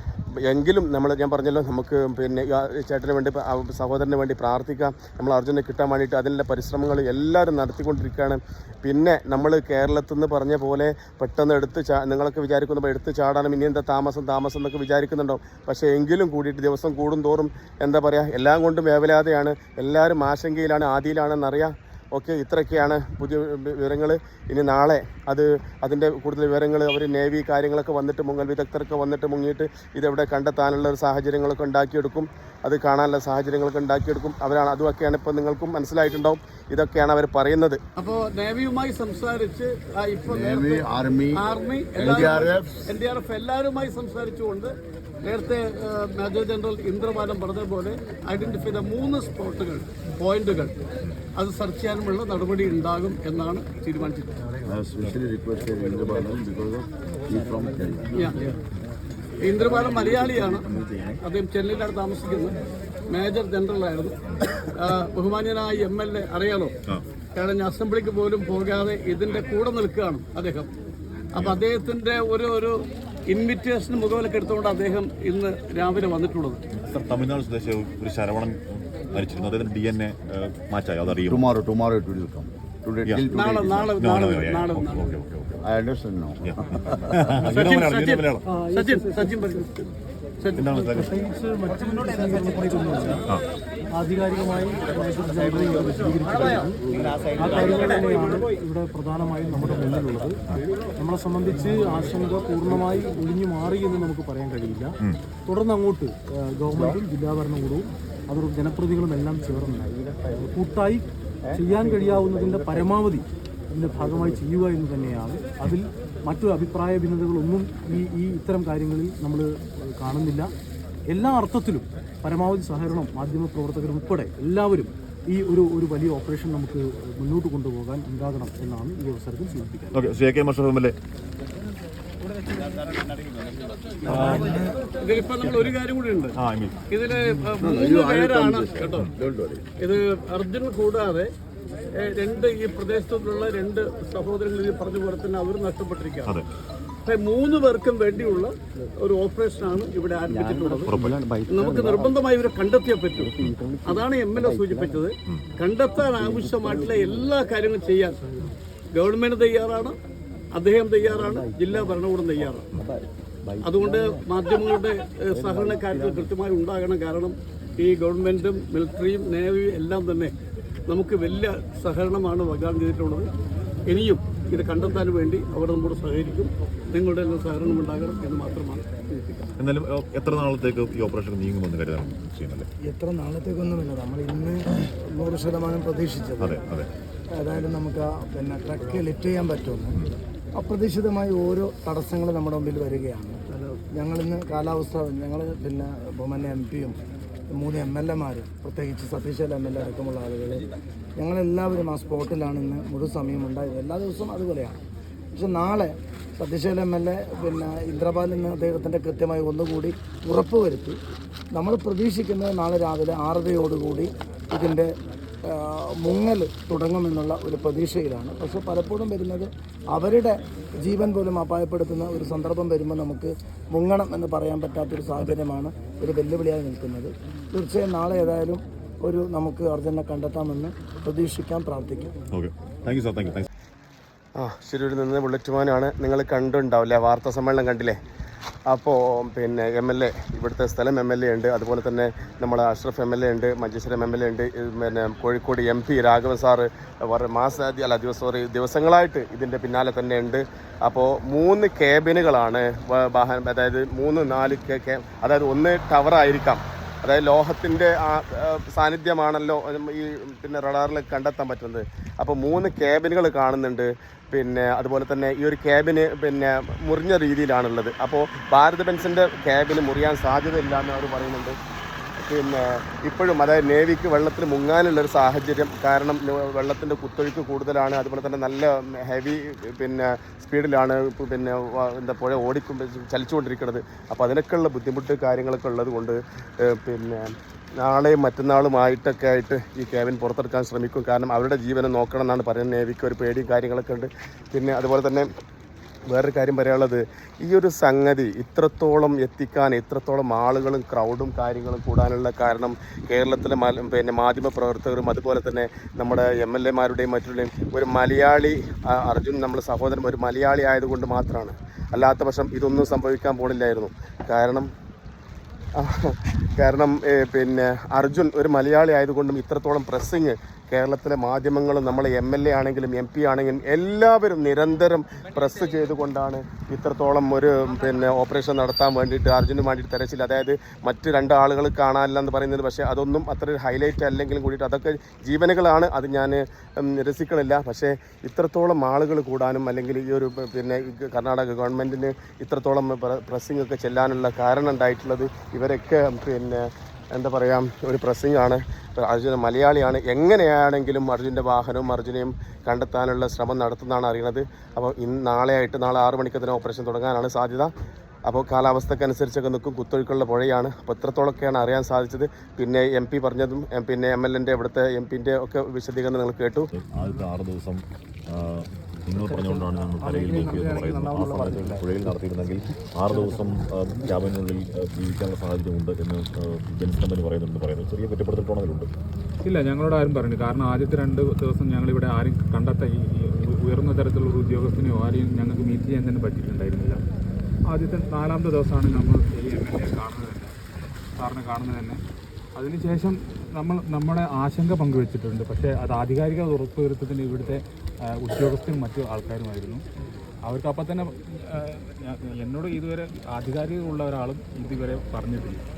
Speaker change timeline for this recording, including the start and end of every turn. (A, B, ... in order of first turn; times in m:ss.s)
0:00.4-0:37.8 A
0:38.0-0:44.7 B
0:40.3-0:41.4 C
0:42.0-0:43.0 C
0:45.2-0:50.8 B
0:51.4-0:54.4 B
0:54.7-0:58.2 C
0:58.1-0:58.5 B
0:59.4-1:02.6 B
1:03.1-1:04.2 B
1:04.7-1:06.7 B
1:07.4-1:10.7 B
1:11.3-1:12.8 B
1:13.3-1:16.6 B
1:16.7-1:21.4 D
1:21.1-1:24.0 C
1:23.1-1:23.3 D
1:23.3-1:25.2 B
1:24.0-1:25.6 D
1:25.6-1:27.3 C
1:26.4-1:28.4 D
1:27.4-1:29.9 B
1:28.5-1:29.7 E
1:30.4-1:30.7 B
1:30.6-1:31.1 D
1:30.7-1:33.2 E
1:33.9-1:40.4 E
1:41.0-2:00.5 E
2:01.1-2:10.0 E
2:09.9-2:11.0 D
2:14.0-2:14.8 F
2:14.1-2:14.6 D
2:15.0-2:16.4 B
2:16.4-2:16.8 D
2:16.9-2:19.1 B
2:17.6-2:19.7 C
2:19.8-2:21.3 B
2:22.0-2:26.3 B
2:27.1-2:30.9 B
2:30.9-2:31.1 D
2:31.5-2:38.3 B
2:38.9-2:40.0 B
2:40.6-2:42.7 B
2:43.6-2:50.3 B
2:50.9-2:53.3 B
2:53.9-2:59.5 B
2:59.6-3:02.7 D
3:02.9-3:04.6 F
3:05.1-3:06.6 F
3:06.4-3:06.9 D
3:07.4-3:10.0 F
3:10.6-3:17.0 F
3:17.5-3:20.7 F
3:21.2-3:24.8 F
3:25.4-3:31.0 F
3:31.5-3:34.9 F
3:35.5-3:52.1 F
3:52.3-3:53.5 D
3:54.4-3:58.0 A
3:58.7-4:31.6 A
4:32.2-4:55.3 A
4:56.1-5:14.7 A
5:15.8-5:57.7 A
5:58.3-6:06.7 A
6:06.7-6:18.9 D
6:09.3-6:11.9 F
6:19.4-6:27.0 G
6:27.7-6:30.5 G
6:31.2-6:32.0 G
6:32.6-6:39.8 G
6:40.5-6:45.6 G